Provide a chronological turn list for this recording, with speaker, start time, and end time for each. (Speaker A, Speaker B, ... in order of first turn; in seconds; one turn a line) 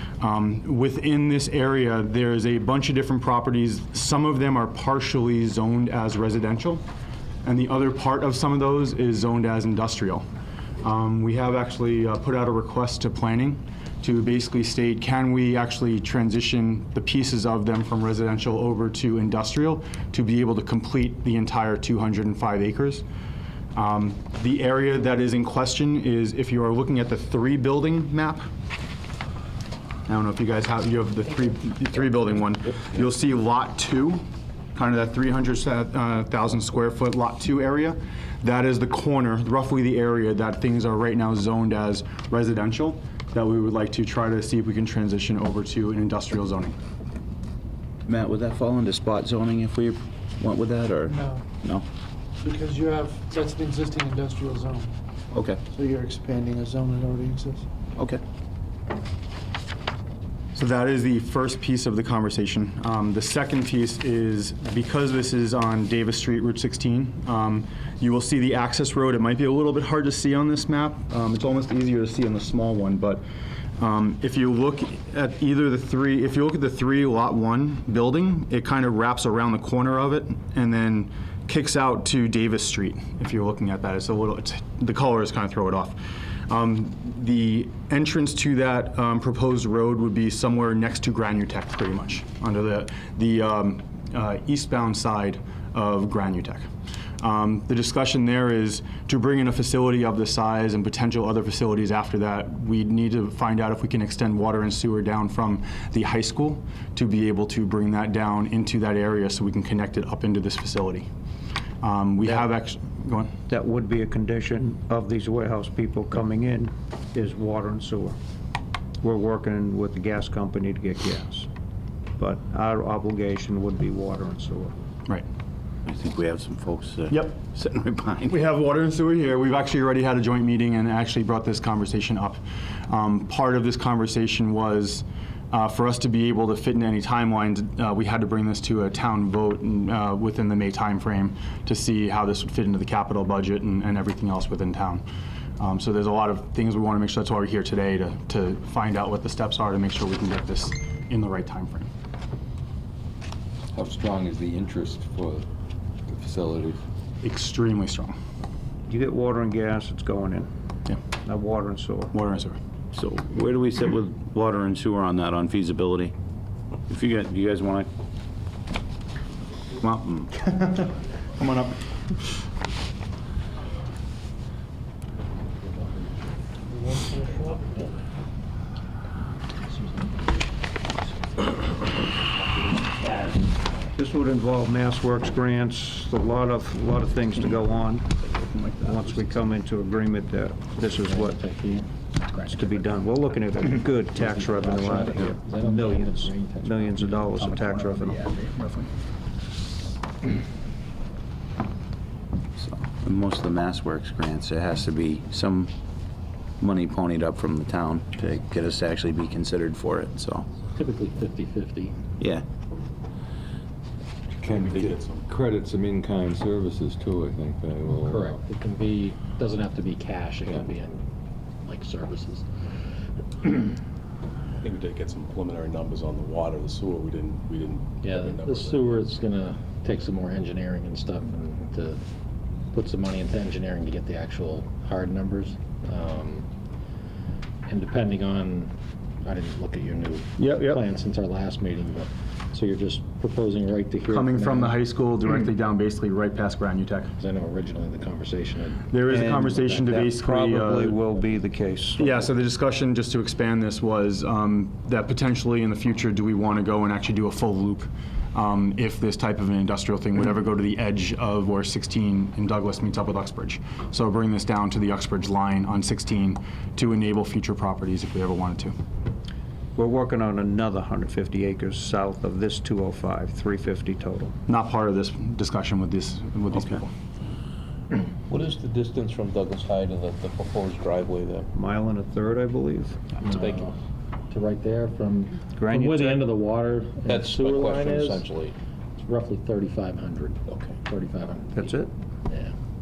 Speaker A: 0.2-6.8
Speaker A: 7.4-10.2
Speaker A: 10.8-23.0
Speaker A: 23.8-28.5
Speaker A: 30.1-34.2
Speaker A: 34.8-46.8
Speaker B: 48.1-51.9
Speaker C: 51.1-51.5
Speaker C: 52.4-54.9
Speaker B: 55.3-55.6
Speaker C: 55.7-57.6
Speaker A: 60.5-73.2
Speaker A: 73.8-96.7
Speaker A: 97.2-111.1
Speaker A: 111.8-113.3
Speaker D: 113.5-118.2
Speaker D: 119.0-121.5
Speaker D: 122.2-124.8
Speaker B: 125.9-128.3
Speaker A: 127.1-127.4
Speaker A: 128.3-145.0
Speaker A: 145.6-151.9
Speaker E: 153.7-155.5
Speaker E: 156.1-156.8
Speaker A: 157.2-158.1
Speaker D: 158.9-160.5
Speaker D: 161.2-162.1
Speaker A: 162.1-162.6
Speaker B: 162.9-166.1
Speaker B: 166.9-167.9
Speaker A: 169.8-171.8
Speaker C: 176.7-177.8
Speaker D: 184.0-188.2
Speaker A: 188.5-188.9
Speaker D: 188.8-191.4
Speaker F: 191.0-191.9
Speaker D: 192.5-198.2
Speaker F: 194.1-197.3
Speaker A: 197.4-198.9
Speaker B: 202.6-205.7
Speaker B: 206.6-210.5
Speaker F: 210.7-211.9
Speaker E: 214.4-218.3
Speaker G: 214.6-215.2
Speaker F: 218.0-221.0
Speaker F: 221.6-222.5
Speaker G: 224.6-229.0
Speaker F: 228.0-232.0
Speaker F: 232.7-236.5
Speaker F: 237.7-244.8
Speaker A: 240.4-240.8
Speaker A: 244.1-247.1
Speaker F: 247.2-248.9
Speaker A: 248.9-251.0
Speaker D: 249.1-252.2
Speaker A: 252.0-268.8
Speaker D: 269.8-274.3
Speaker A: 274.5-276.9
Speaker H: 278.3-281.5
Speaker D: 281.5-283.0
Speaker F: 283.2-283.7
Speaker F: 284.3-288.2
Speaker D: 285.6-286.3
Speaker H: 287.1-288.3
Speaker F: 289.0-292.5
Speaker D: 291.5-291.9